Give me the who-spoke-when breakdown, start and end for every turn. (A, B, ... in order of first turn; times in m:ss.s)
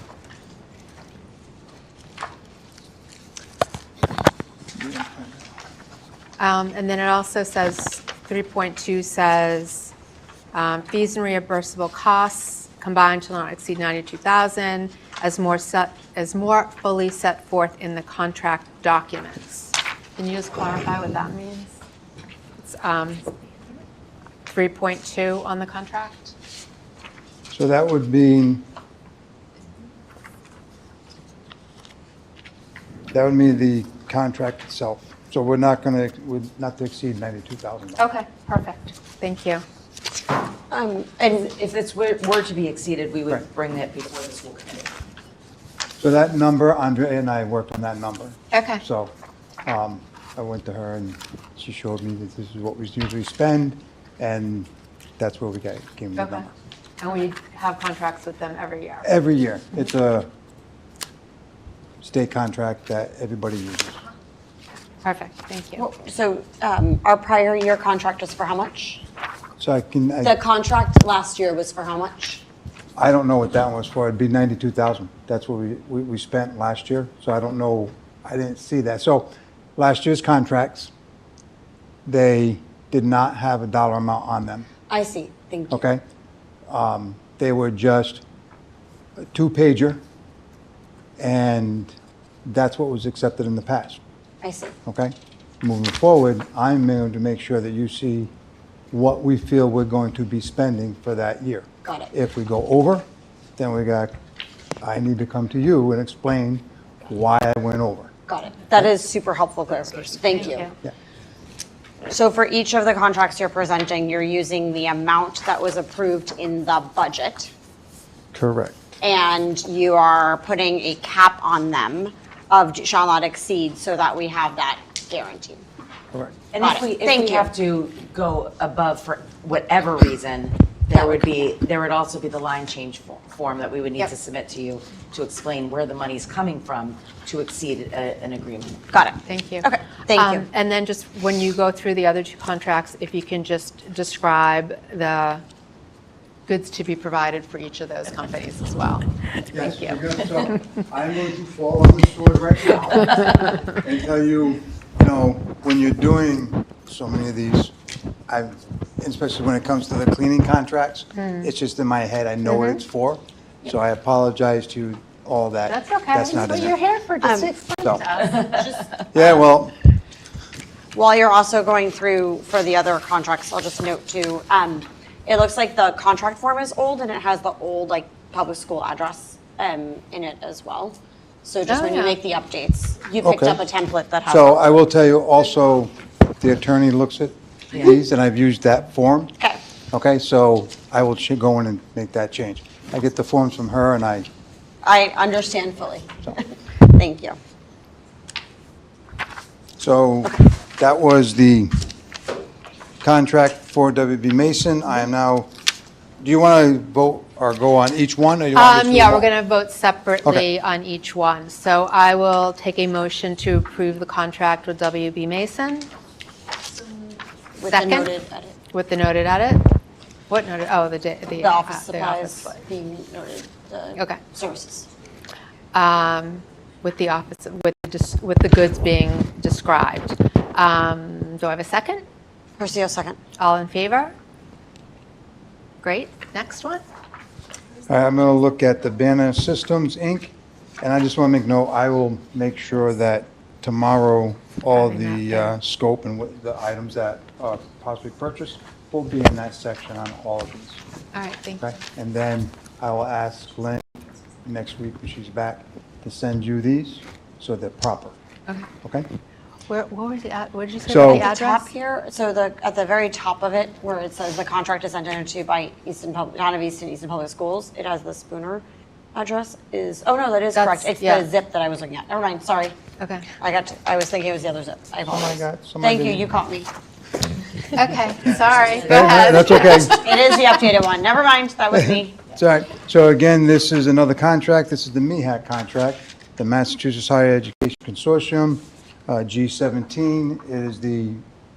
0:06.4-0:09.9 A
0:10.5-0:21.7 A
0:22.6-0:23.4 A
0:24.5-0:26.4 A
0:27.5-0:28.6 B
0:33.1-0:38.0 B
0:38.0-0:39.6 A
0:40.7-0:41.4 C
0:41.4-0:44.9 D
0:46.0-0:49.1 B
0:48.5-0:48.8 A
0:49.6-0:56.5 B
0:56.2-0:56.4 A
0:57.0-0:59.1 A
0:59.0-1:00.3 B
1:02.0-1:04.0 B
1:05.0-1:05.8 A
1:05.8-1:09.0 C
1:09.6-1:10.4 B
1:10.2-1:12.4 C
1:13.0-1:20.9 B
1:22.1-1:24.7 B
1:24.9-1:25.9 C
1:25.7-1:26.0 B
1:26.7-1:28.2 B
1:29.3-1:30.0 B
1:31.2-1:34.0 B
1:34.4-1:34.8 C
1:34.9-1:38.3 B
1:38.9-1:43.1 B
1:41.8-1:42.1 C
1:43.6-1:44.2 B
1:44.8-1:48.1 B
1:48.3-1:50.7 C
1:50.3-1:50.7 A
1:52.1-1:57.5 C
1:58.3-1:58.8 B
1:59.0-2:05.6 C
2:06.5-2:18.8 D
2:06.6-2:07.5 C
2:10.9-2:11.3 C
2:18.9-2:20.5 C
2:19.3-2:25.4 A
2:26.5-2:30.0 A
2:29.5-2:37.7 B
2:38.3-2:46.8 B
2:41.2-2:41.5 A
2:42.5-2:42.8 A
2:45.7-2:48.6 A
2:47.2-2:47.5 C
2:48.7-2:49.3 C
2:49.1-2:49.8 B
2:50.9-3:04.7 C
3:01.7-3:02.2 A
3:03.2-3:03.6 B
3:04.3-3:09.4 B
3:09.9-3:14.3 B
3:14.8-3:17.4 C
3:19.8-3:21.8 B
3:23.0-3:25.5 B
3:26.2-3:29.3 B
3:28.5-3:35.9 A
3:37.6-3:38.6 C
3:37.7-3:38.1 A
3:38.7-3:39.7 A
3:40.3-3:42.5 A
3:41.4-3:44.9 C
3:45.7-3:52.0 A
3:52.6-3:53.2 C
3:53.4-3:54.1 A
3:55.8-3:56.8 A
3:57.9-4:10.8 B
4:04.7-4:05.5 A
4:11.1-4:11.7 A
4:11.6-4:13.9 B
4:14.4-4:18.2 B
4:18.8-4:19.1 B
4:19.7-4:21.7 A
4:20.9-4:21.3 B
4:21.0-4:32.8 C
4:30.6-4:31.2 A
4:33.0-4:33.3 A
4:33.4-4:36.7 C
4:35.1-4:36.3 B
4:37.8-4:40.4 A
4:38.2-4:39.3 D
4:38.8-4:40.0 B
4:39.8-4:42.2 C
4:41.7-4:51.2 B